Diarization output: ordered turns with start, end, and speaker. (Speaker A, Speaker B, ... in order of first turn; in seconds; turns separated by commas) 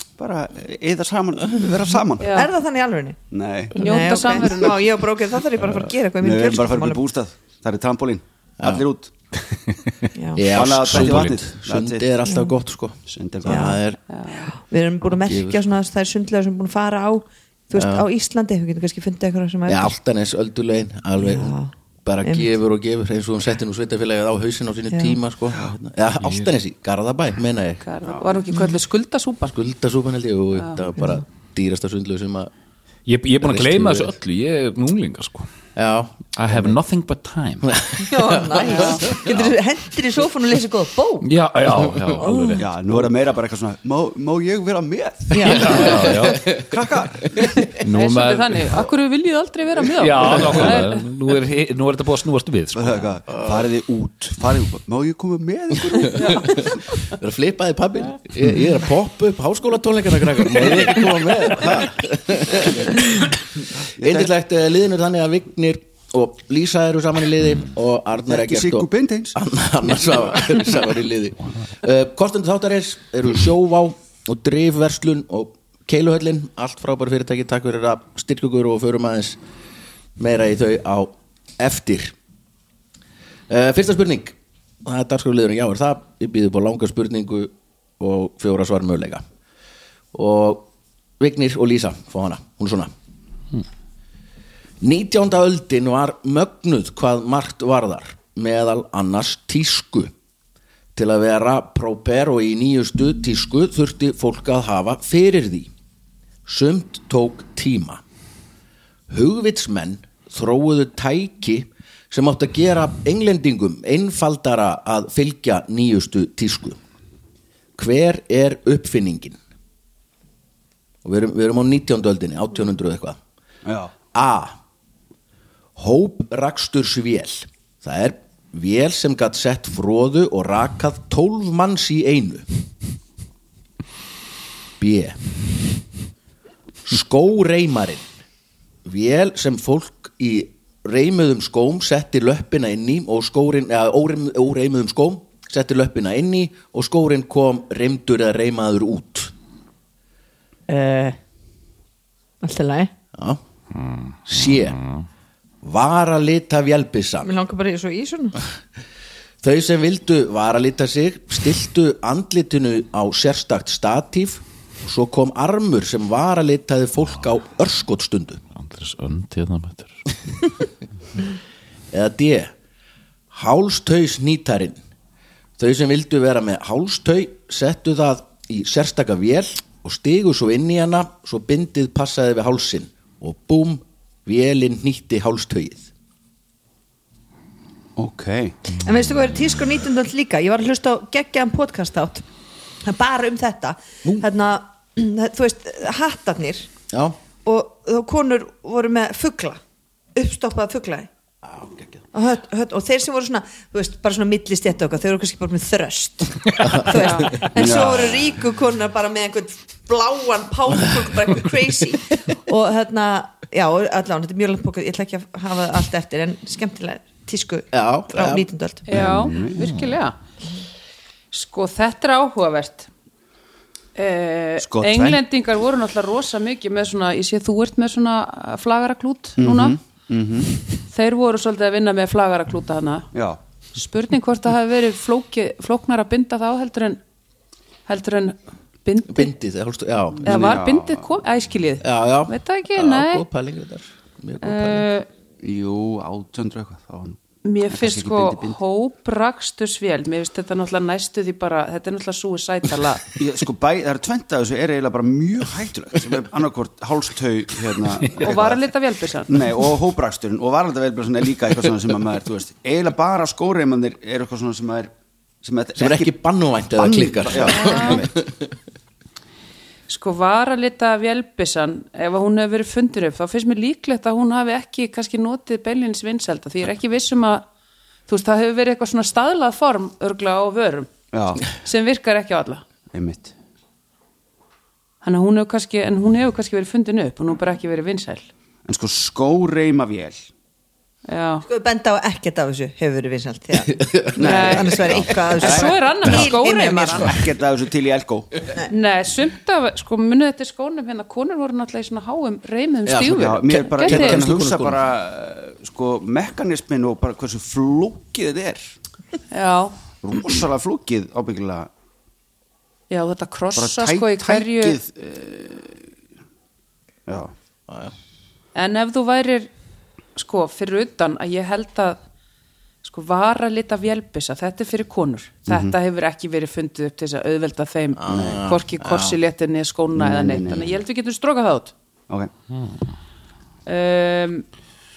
Speaker A: 0.2-2.4, Speaker B: 2.2-2.5, Speaker C: 2.3-3.2, Speaker A: 3.3-4.7, Speaker C: 3.7-7.0, Speaker B: 3.8-4.8, Speaker A: 6.2-9.1, Speaker D: 8.6-8.8, Speaker E: 9.7-10.1, Speaker C: 10.1-10.5, Speaker D: 10.3-14.0, Speaker A: 10.5-12.1, Speaker E: 10.9-11.3, Speaker C: 12.3-12.5, Speaker A: 13.1-13.7, Speaker C: 13.4-13.8, Speaker B: 14.1-14.5, Speaker C: 14.3-19.9, Speaker D: 15.1-15.7, Speaker D: 17.7-18.1, Speaker D: 19.7-27.8, Speaker C: 21.2-21.7, Speaker B: 27.8-29.6, Speaker D: 29.5-32.5, Speaker E: 33.0-35.5, Speaker D: 33.4-34.1, Speaker D: 35.8-36.7, Speaker E: 36.3-37.7, Speaker D: 37.6-39.5, Speaker C: 38.0-41.3, Speaker B: 38.7-39.0, Speaker E: 41.2-42.6, Speaker C: 42.2-42.6, Speaker A: 42.6-47.5, Speaker C: 45.3-46.1, Speaker E: 45.4-46.5, Speaker D: 45.6-46.4, Speaker E: 47.7-48.8, Speaker B: 47.9-51.0, Speaker E: 50.0-53.0, Speaker A: 52.7-56.7, Speaker D: 55.9-63.3, Speaker A: 64.0-64.3, Speaker D: 64.0-79.4, Speaker A: 68.3-69.3, Speaker D: 80.2-82.1, Speaker D: 83.5-89.2, Speaker D: 90.1-90.7, Speaker D: 91.2-92.9, Speaker D: 94.8-100.1, Speaker D: 101.0-105.7, Speaker D: 106.5-108.0, Speaker D: 109.1-116.8, Speaker D: 117.8-119.4, Speaker D: 121.0-123.2, Speaker A: 123.6-123.9, Speaker D: 124.1-124.6, Speaker D: 125.8-132.5, Speaker D: 134.8-135.2, Speaker D: 136.8-138.1, Speaker D: 138.8-149.3, Speaker C: 150.7-151.2, Speaker C: 152.4-152.9, Speaker D: 153.1-153.4, Speaker E: 153.8-154.2, Speaker D: 154.2-154.8, Speaker E: 154.7-155.0, Speaker D: 155.6-157.3, Speaker C: 157.2-158.4, Speaker D: 159.4-168.4, Speaker E: 168.5-170.1, Speaker D: 171.9-172.5, Speaker D: 173.3-174.8, Speaker D: 175.6-185.9, Speaker A: 187.9-188.6, Speaker C: 188.8-192.2, Speaker C: 192.8-196.7, Speaker D: 196.9-197.2, Speaker C: 197.4-199.6, Speaker C: 200.1-201.1, Speaker D: 201.4-202.0, Speaker C: 202.1-218.8, Speaker D: 206.6-207.2, Speaker B: 206.9-207.3, Speaker A: 207.4-208.3, Speaker D: 217.7-218.5, Speaker B: 218.8-220.2, Speaker A: 218.9-219.5, Speaker B: 221.3-222.9, Speaker B: 223.9-229.8, Speaker A: 224.6-225.2, Speaker A: 229.4-230.5, Speaker B: 230.9-233.1, Speaker A: 233.1-233.4, Speaker B: 233.7-237.0, Speaker B: 237.9-239.3, Speaker D: 239.1-240.3, Speaker B: 240.2-243.2, Speaker A: 240.2-241.1, Speaker D: 241.8-244.8, Speaker B: 244.4-245.1, Speaker A: 245.4-247.2, Speaker B: 247.4-253.0, Speaker A: 247.7-248.6, Speaker A: 253.1-258.6, Speaker E: 258.0-258.3, Speaker B: 258.2-259.4, Speaker A: 259.3-264.9, Speaker A: 265.4-266.1, Speaker D: 265.8-268.4, Speaker A: 266.7-268.1, Speaker B: 267.4-268.0, Speaker B: 269.9-277.4, Speaker B: 278.1-280.9, Speaker A: 281.1-281.4, Speaker B: 281.5-282.6, Speaker A: 282.9-283.3, Speaker B: 285.0-288.2, Speaker A: 288.7-290.2, Speaker B: 291.1-291.4, Speaker C: 291.4-297.1, Speaker D: 293.7-294.2, Speaker A: 294.2-296.2, Speaker B: 294.2-297.1, Speaker A: 297.0-298.4, Speaker B: 298.7-304.2, Speaker D: 302.9-304.8, Speaker A: 303.1-308.7, Speaker B: 309.3-309.7, Speaker A: 310.0-311.7, Speaker B: 312.9-314.8, Speaker A: 313.6-315.8, Speaker A: 317.1-317.3, Speaker D: 317.7-317.9, Speaker B: 318.5-319.5, Speaker B: 320.1-322.0, Speaker B: 322.8-331.7, Speaker A: 325.5-325.7, Speaker D: 327.9-329.2, Speaker A: 328.1-328.4, Speaker A: 329.9-330.7, Speaker B: 333.6-334.4